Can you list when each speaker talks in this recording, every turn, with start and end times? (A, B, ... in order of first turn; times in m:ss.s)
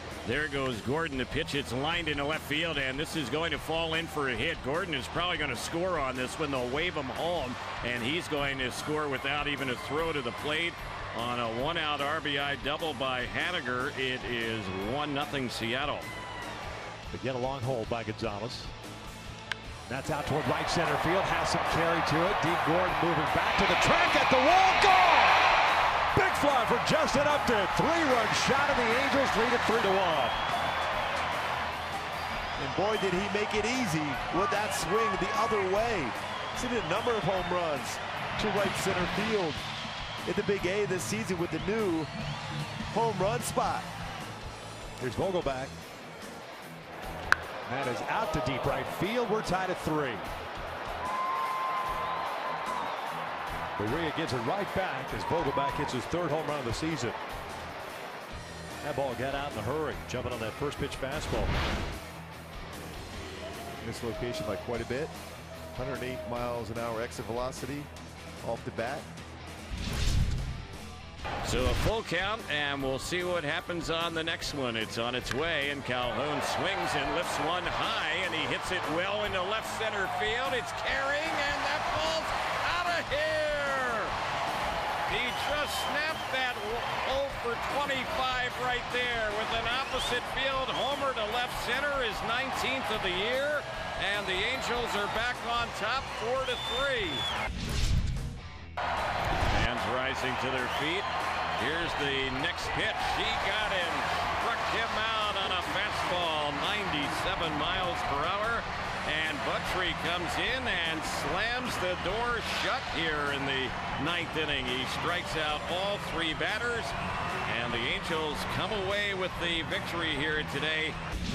0:00.3-0:16.1 A
0:17.1-0:18.7 B
0:19.9-0:25.6 B
0:26.1-0:30.4 B
0:32.6-0:39.6 C
0:40.2-0:42.1 C
0:42.9-0:43.9 C
0:45.0-0:45.7 B
0:47.7-0:50.3 B
0:53.8-0:57.2 B
0:58.8-1:01.5 B
1:03.8-1:05.1 C
1:05.8-1:07.9 C
1:08.4-1:09.1 C
1:11.4-1:24.2 A
1:25.1-1:37.3 A
1:39.5-1:56.9 A
1:57.4-2:01.0 A